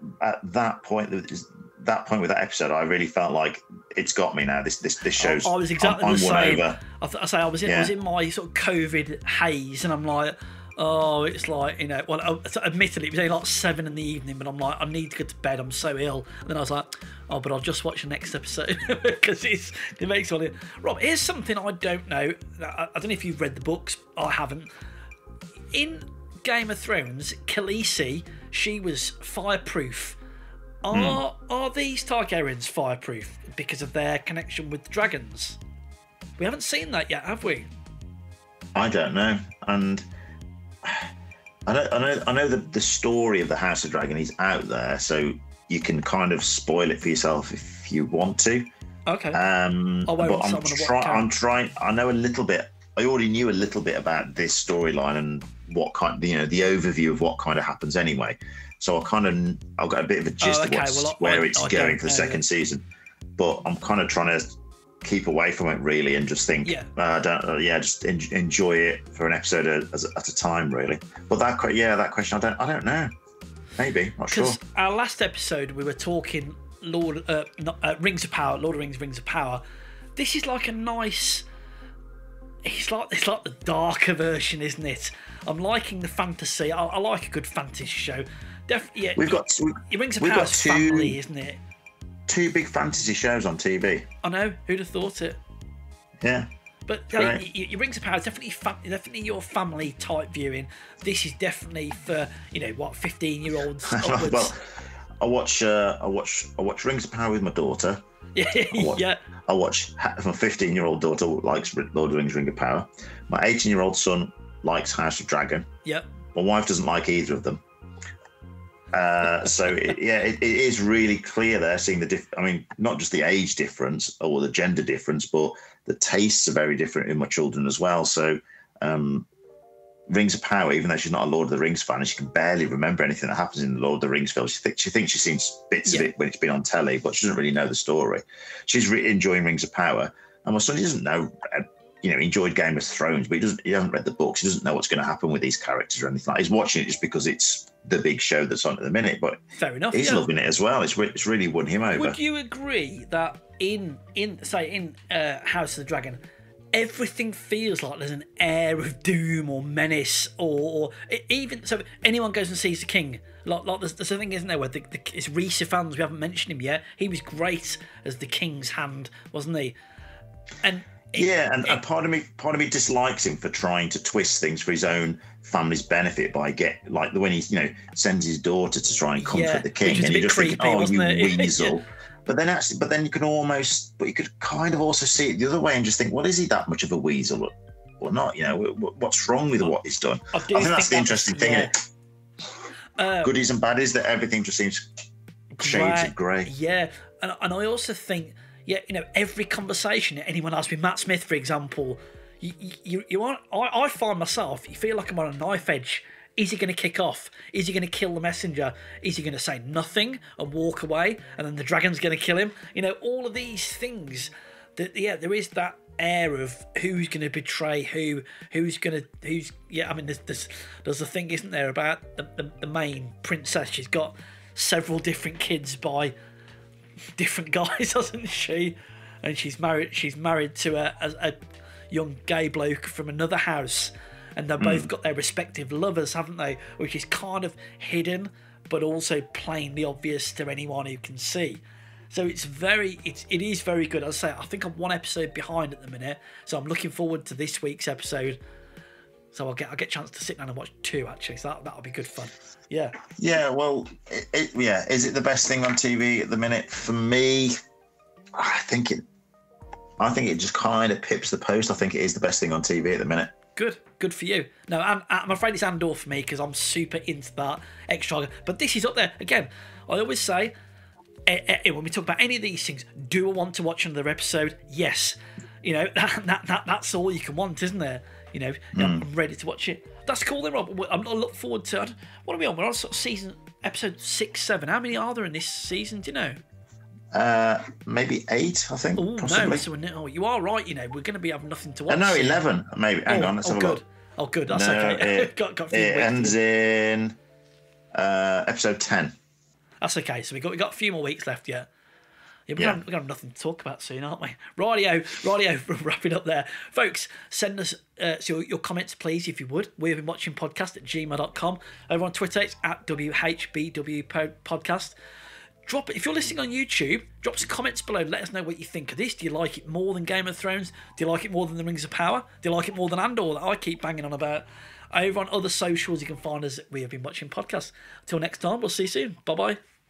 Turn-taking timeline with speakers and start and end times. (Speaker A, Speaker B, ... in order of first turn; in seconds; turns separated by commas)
Speaker A: 0.2-6.8, Speaker B: 5.2-24.7, Speaker A: 7.6-7.9, Speaker B: 25.7-30.2, Speaker B: 30.8-35.6, Speaker A: 30.9-31.2, Speaker B: 36.4-37.7, Speaker A: 38.7-40.1, Speaker A: 40.8-41.1, Speaker A: 41.7-48.7, Speaker B: 49.1-49.4, Speaker A: 49.3-62.8, Speaker B: 50.1-51.3, Speaker B: 60.4-62.4, Speaker A: 63.4-73.1, Speaker A: 73.8-74.6, Speaker B: 74.3-79.6, Speaker B: 80.2-81.5, Speaker B: 82.6-91.6, Speaker A: 89.2-91.2, Speaker A: 92.3-94.0, Speaker B: 94.2-95.4, Speaker A: 96.2-96.5, Speaker B: 96.9-104.5, Speaker A: 97.1-97.4, Speaker A: 103.9-104.6, Speaker A: 105.2-108.0, Speaker B: 108.3-109.2, Speaker A: 108.7-115.7, Speaker A: 116.3-117.6, Speaker A: 118.9-129.3, Speaker A: 130.1-149.4, Speaker B: 149.6-150.2, Speaker A: 149.9-152.2, Speaker B: 151.9-156.2, Speaker B: 156.7-169.8, Speaker B: 170.6-171.8, Speaker A: 171.1-191.7, Speaker B: 179.2-181.8, Speaker B: 190.3-191.7, Speaker B: 193.0-193.3, Speaker A: 193.2-194.9, Speaker B: 195.6-226.1, Speaker A: 195.6-196.5, Speaker B: 227.2-231.3, Speaker B: 231.9-248.4, Speaker A: 234.6-234.9, Speaker B: 249.3-253.0, Speaker A: 253.2-257.5, Speaker A: 258.3-259.0, Speaker A: 260.0-263.3, Speaker B: 263.6-270.5, Speaker B: 271.3-286.4, Speaker A: 278.7-279.0, Speaker A: 287.1-289.6, Speaker B: 289.0-292.4, Speaker A: 291.9-293.8, Speaker B: 293.1-296.4, Speaker A: 294.5-297.1, Speaker A: 297.9-299.1, Speaker B: 299.8-301.7, Speaker B: 302.5-314.9, Speaker B: 315.6-329.6